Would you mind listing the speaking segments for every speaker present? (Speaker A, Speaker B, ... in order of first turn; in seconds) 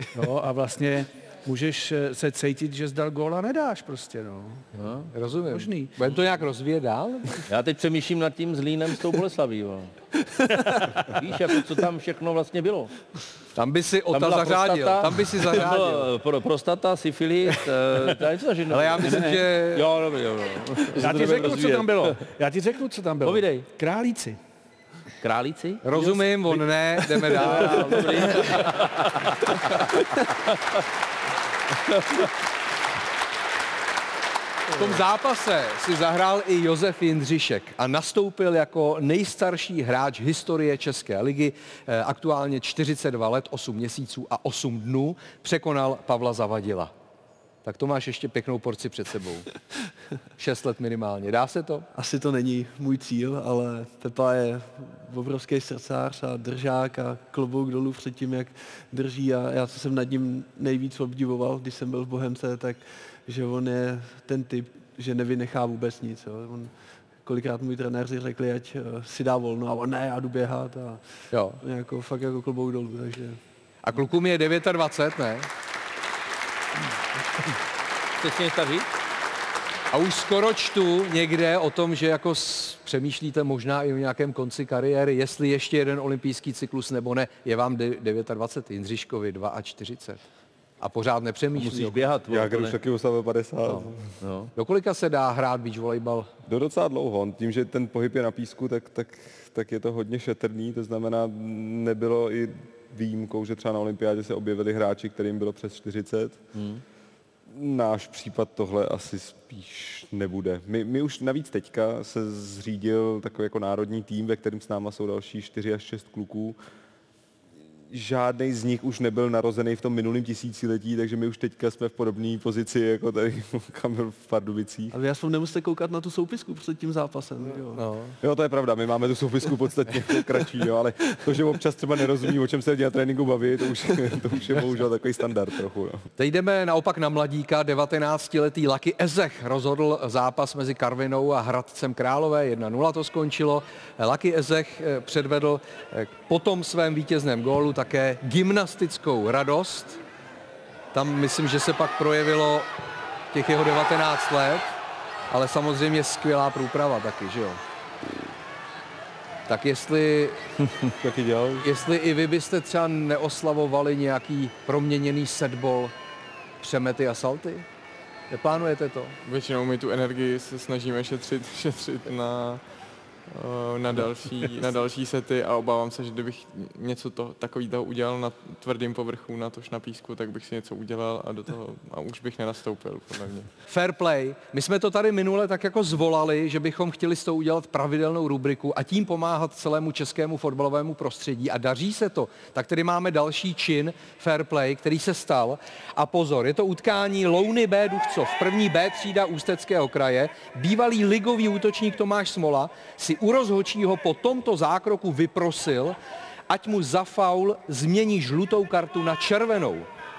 Speaker A: 0.1-4.7, 5.5-6.0, 10.5-11.1, 19.0-19.4, 20.9-24.4, 27.7-28.9
Speaker B: 4.7-5.1, 7.5-9.9, 10.9-12.9, 14.1-22.2, 23.2-23.7, 25.2-29.7, 78.2-78.9, 91.6-92.8, 94.2-94.5, 106.5-106.8
Speaker C: 5.1-7.4, 13.6-16.1, 18.7-19.9, 25.8-28.4, 34.7-46.9, 47.6-49.5, 50.4-51.9, 71.3-71.6, 73.8-75.5, 79.9-90.2, 90.8-92.0, 94.5-96.3, 127.8-128.1, 136.2-150.0, 150.9-152.7, 153.3-154.7, 155.3-157.6, 159.5-160.5, 161.6-165.9, 166.6-167.7, 168.3-169.2, 183.7-206.0, 206.5-209.9
Speaker D: 51.9-66.7, 67.2-71.0, 71.6-73.4, 124.9-127.8
Speaker E: 92.3-94.0, 96.5-106.4, 107.5-116.6, 117.9-125.0, 128.2-136.1, 161.0-161.6
Speaker F: 169.2-172.6, 173.3-183.5